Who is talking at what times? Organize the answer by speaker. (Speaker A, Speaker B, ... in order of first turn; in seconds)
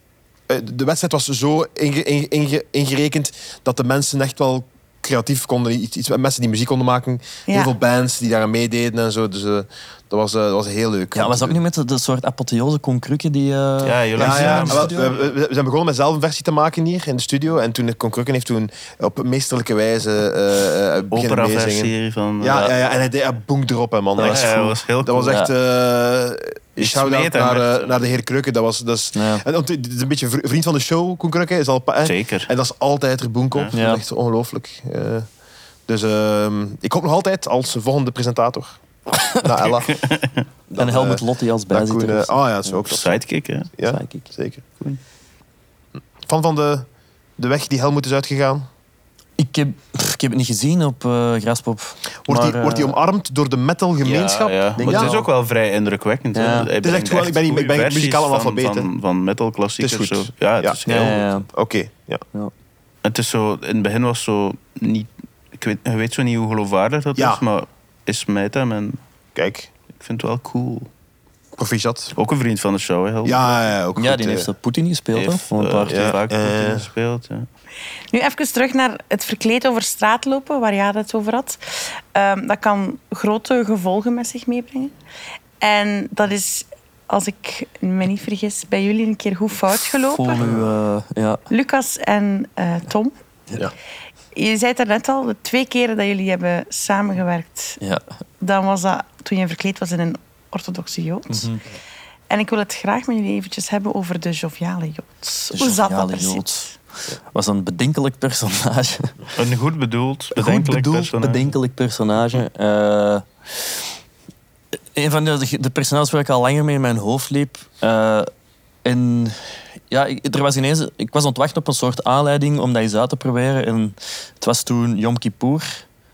Speaker A: 0.5-11.6, 14.2-35.3, 35.9-38.8, 39.3-40.0, 40.7-43.2, 43.8-44.6, 46.2-48.7, 52.2-55.2, 56.8-58.9, 59.8-62.2, 67.2-67.4, 69.3-69.7, 71.6-72.1, 73.2-74.5, 75.9-76.9
Speaker B: 11.1-15.1, 24.2-25.5, 29.1-29.4, 33.7-34.0, 40.8-42.8, 43.9-44.2, 49.4-53.0, 54.8-55.2, 56.3-56.7, 60.9-61.5, 74.0-75.9, 90.1-91.4, 101.3-101.6, 105.5-106.7, 107.3-109.1, 110.3-113.8, 114.9-118.3, 118.8-119.4, 119.9-125.8
Speaker C: 13.8-14.9, 21.1-22.7, 24.2-25.2, 26.8-27.9, 32.0-32.5, 39.8-40.4, 42.8-43.7, 54.0-61.2, 63.0-69.0, 70.0-70.9, 72.2-73.6, 75.1-77.5, 109.3-111.5
Speaker D: 78.1-84.9, 85.6-90.4, 91.5-93.1, 94.3-97.8, 98.4-101.5, 102.3-106.7